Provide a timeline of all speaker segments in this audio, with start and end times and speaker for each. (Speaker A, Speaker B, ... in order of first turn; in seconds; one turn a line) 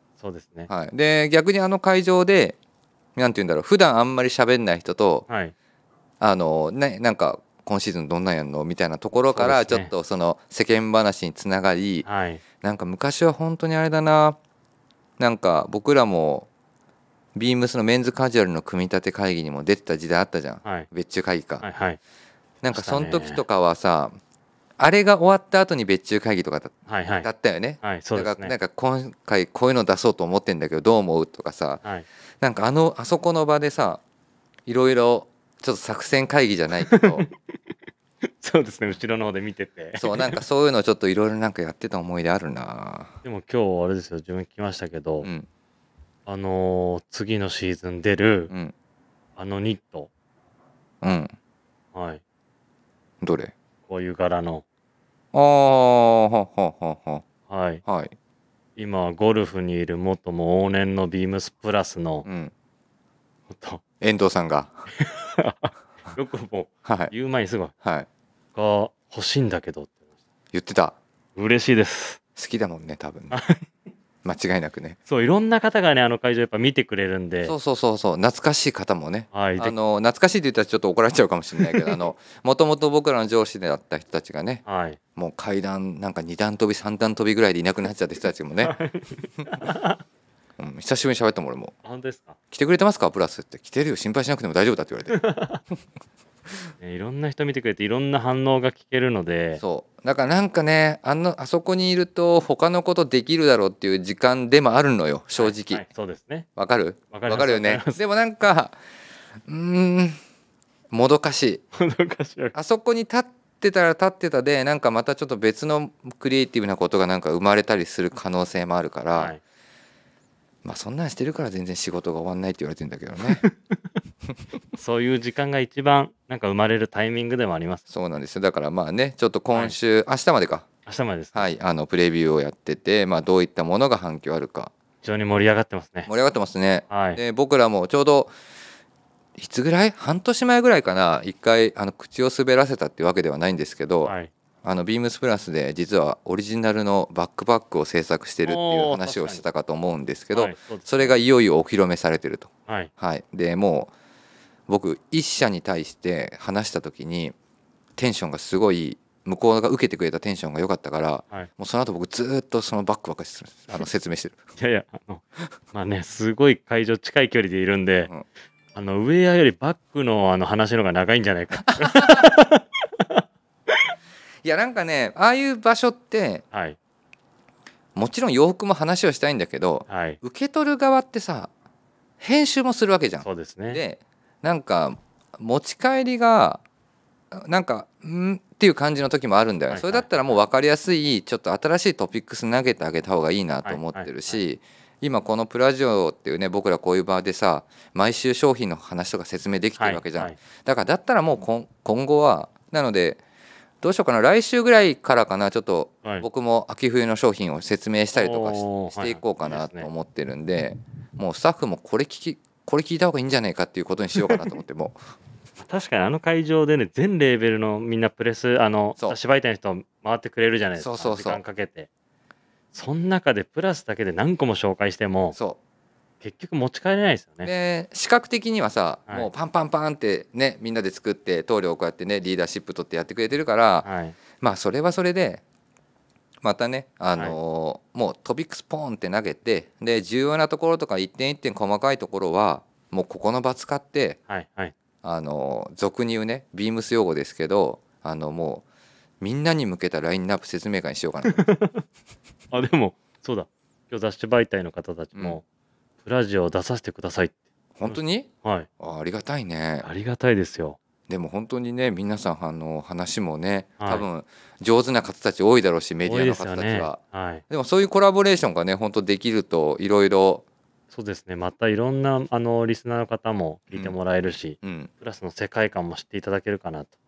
Speaker A: 0.2-0.7
Speaker B: 0.7-2.6
Speaker B: 3.2-5.3
Speaker A: 5.3-5.5
Speaker B: 6.2-12.1
Speaker A: 9.3-9.9
Speaker A: 12.1-12.4
Speaker B: 12.6-14.4
Speaker B: 15.2-16.5
Speaker B: 17.4-21.6
Speaker A: 20.6-20.9
Speaker A: 21.6-22.0
Speaker B: 22.6-24.2
Speaker A: 22.7-23.4
Speaker B: 24.8-31.8
Speaker A: 26.9-27.3
Speaker A: 27.8-28.5
Speaker B: 32.4-34.0
Speaker B: 34.7-37.3
Speaker A: 36.9-37.3
Speaker A: 38.4-40.4
Speaker B: 40.0-43.2
Speaker A: 43.2-45.3
Speaker A: 46.3-48.5
Speaker A: 49.4-50.1
Speaker B: 51.0-51.3
Speaker A: 51.9-52.2
Speaker B: 53.2-53.5
Speaker A: 53.9-54.6
Speaker B: 55.3-57.2
Speaker A: 57.5-57.8
Speaker B: 57.9-58.1
Speaker A: 58.8-62.3
Speaker B: 62.2-62.5
Speaker A: 63.5-63.8
Speaker B: 64.0-64.8
Speaker A: 65.0-67.7
Speaker B: 66.8-67.1
Speaker A: 68.5-70.0
Speaker B: 70.5-71.0
Speaker A: 71.4-72.2
Speaker B: 72.4-73.4
Speaker A: 73.3-73.7
Speaker B: 74.2-75.0
Speaker A: 75.1-77.5
Speaker B: 77.4-84.6
Speaker A: 79.3-79.8
Speaker A: 81.6-82.0
Speaker A: 84.7-85.0
Speaker B: 85.2-88.8
Speaker A: 88.6-90.0
Speaker B: 90.6-91.8
Speaker A: 91.8-92.4
Speaker B: 92.5-95.2
Speaker A: 95.1-95.6
Speaker A: 96.8-99.6
Speaker B: 99.6-105.8
Speaker A: 105.4-106.5
Speaker B: 106.6-108.8
Speaker A: 107.1-108.0
Speaker B: 109.5-110.2
Speaker B: 110.9-111.6
Speaker A: 111.7-112.6
Speaker B: 112.5-119.3
Speaker A: 119.2-119.4
Speaker B: 120.6-123.5
Speaker A: 123.2-123.8
Speaker A: 124.8-127.8
Speaker B: 127.9-130.7
Speaker A: 129.5-129.8
Speaker A: 130.9-131.5
Speaker B: 131.3-134.7
Speaker A: 135.0-136.1
Speaker B: 136.1-138.3
Speaker A: 136.9-137.2
Speaker B: 139.4-153.9
Speaker A: 144.0-144.3
Speaker A: 148.4-149.4
Speaker A: 150.3-151.2
Speaker B: 154.7-157.3
Speaker B: 158.0-164.4
Speaker A: 164.6-168.1
Speaker A: 168.7-173.8
Speaker B: 171.7-172.2
Speaker B: 174.4-176.4
Speaker A: 176.5-176.8
Speaker B: 177.9-181.5
Speaker A: 179.9-180.2
Speaker B: 182.2-186.6
Speaker A: 183.2-183.8
Speaker B: 187.3-203.2
Speaker A: 189.7-190.1
Speaker A: 193.6-194.4
Speaker A: 199.8-200.4
Speaker B: 203.8-215.0
Speaker A: 208.2-209.9
Speaker A: 215.6-221.9
Speaker B: 220.8-221.4
Speaker A: 222.7-225.4
Speaker A: 226.2-227.5
Speaker B: 227.4-233.9
Speaker A: 233.8-234.2
Speaker B: 234.4-235.4
Speaker B: 236.4-244.2
Speaker A: 244.3-244.7
Speaker B: 245.0-248.7
Speaker B: 249.2-251.5
Speaker A: 251.3-251.8
Speaker A: 252.5-255.4
Speaker A: 256.0-258.7
Speaker B: 257.8-258.3
Speaker B: 258.8-259.9
Speaker A: 259.8-260.8
Speaker B: 261.1-267.0
Speaker A: 263.8-264.1
Speaker A: 266.0-267.4
Speaker B: 267.5-270.4
Speaker A: 270.9-276.9
Speaker B: 274.6-274.9